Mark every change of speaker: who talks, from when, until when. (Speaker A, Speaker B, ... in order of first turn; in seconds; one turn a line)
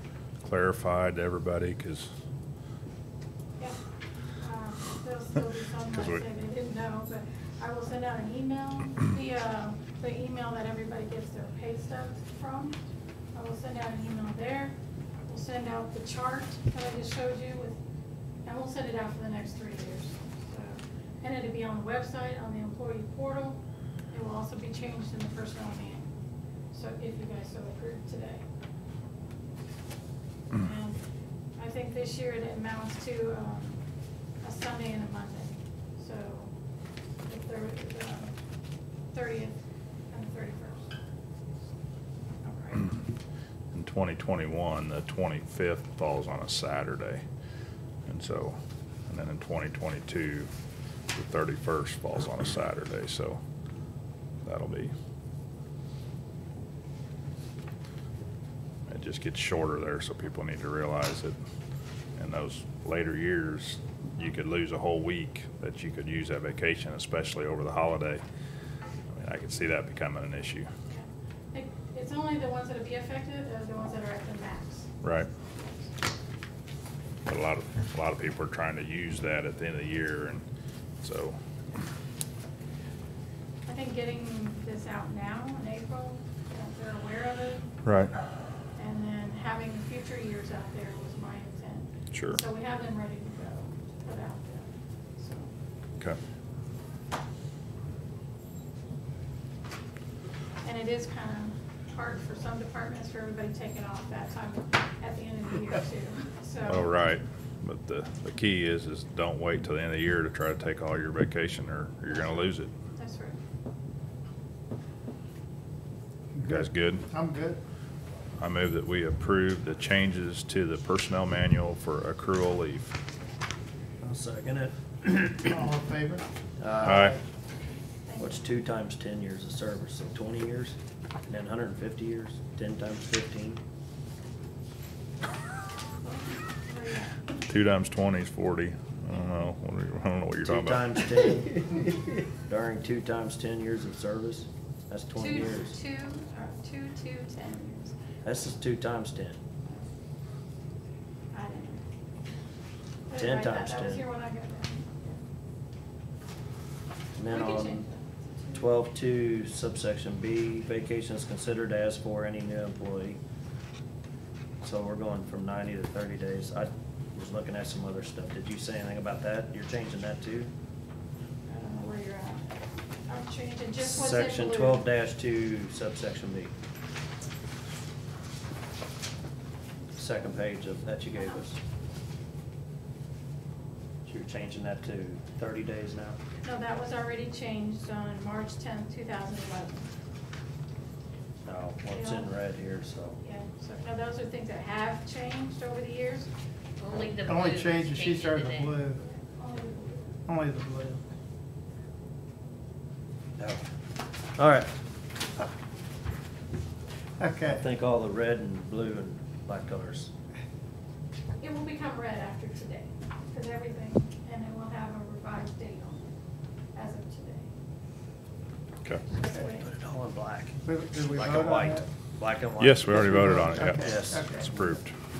Speaker A: 0.4-2.1
Speaker B: 4.3-12.8
Speaker A: 5.9-6.2
Speaker B: 13.3-17.8
Speaker B: 18.4-23.6
Speaker B: 24.1-26.1
Speaker B: 26.7-28.4
Speaker B: 30.5-31.0
Speaker B: 31.6-33.8
Speaker B: 34.4-36.5
Speaker B: 37.2-38.3
Speaker B: 39.1-39.5
Speaker B: 40.1-40.9
Speaker B: 42.4-43.0
Speaker A: 43.7-47.2
Speaker A: 48.1-48.6
Speaker A: 49.1-50.5
Speaker A: 51.1-53.4
Speaker A: 54.4-54.9
Speaker A: 58.9-61.3
Speaker A: 62.2-68.2
Speaker A: 69.1-70.7
Speaker B: 70.9-74.9
Speaker A: 75.0-75.3
Speaker B: 75.6-75.8
Speaker A: 77.2-80.4
Speaker A: 81.0-81.4
Speaker B: 83.7-87.7
Speaker A: 87.8-88.2
Speaker B: 88.8-95.5
Speaker A: 92.1-92.4
Speaker B: 100.6-107.0
Speaker A: 106.7-112.7
Speaker B: 112.1-113.4
Speaker C: 116.3-117.6
Speaker A: 116.4-117.0
Speaker A: 118.4-122.9
Speaker D: 124.0-125.6
Speaker C: 125.5-126.2
Speaker D: 126.6-127.1
Speaker A: 126.8-127.2
Speaker C: 126.8-127.2
Speaker B: 128.1-128.4
Speaker D: 128.2-130.8
Speaker D: 131.3-133.6
Speaker B: 136.0-137.2
Speaker A: 137.5-141.0
Speaker D: 140.4-141.9
Speaker D: 142.5-145.7
Speaker B: 145.2-147.9
Speaker D: 148.2-149.4
Speaker B: 151.3-151.8
Speaker B: 153.1-155.2
Speaker D: 153.1-154.0
Speaker D: 157.1-157.9
Speaker B: 157.3-158.7
Speaker D: 158.5-163.2
Speaker D: 164.6-170.5
Speaker B: 171.5-174.8
Speaker D: 173.8-176.5
Speaker D: 179.9-181.6
Speaker D: 184.1-186.2
Speaker B: 186.4-189.9
Speaker D: 191.4-193.2
Speaker B: 191.9-192.3
Speaker B: 193.2-196.3
Speaker E: 196.8-198.8
Speaker C: 197.2-199.0
Speaker B: 199.0-200.1
Speaker C: 200.3-201.0
Speaker D: 204.3-204.7
Speaker C: 207.2-207.6
Speaker D: 207.4-210.1
Speaker B: 211.4-216.2
Speaker B: 216.7-217.5
Speaker B: 219.1-219.7
Speaker D: 219.4-224.8
Speaker C: 220.6-221.9
Speaker A: 222.6-224.9
Speaker C: 223.0-224.5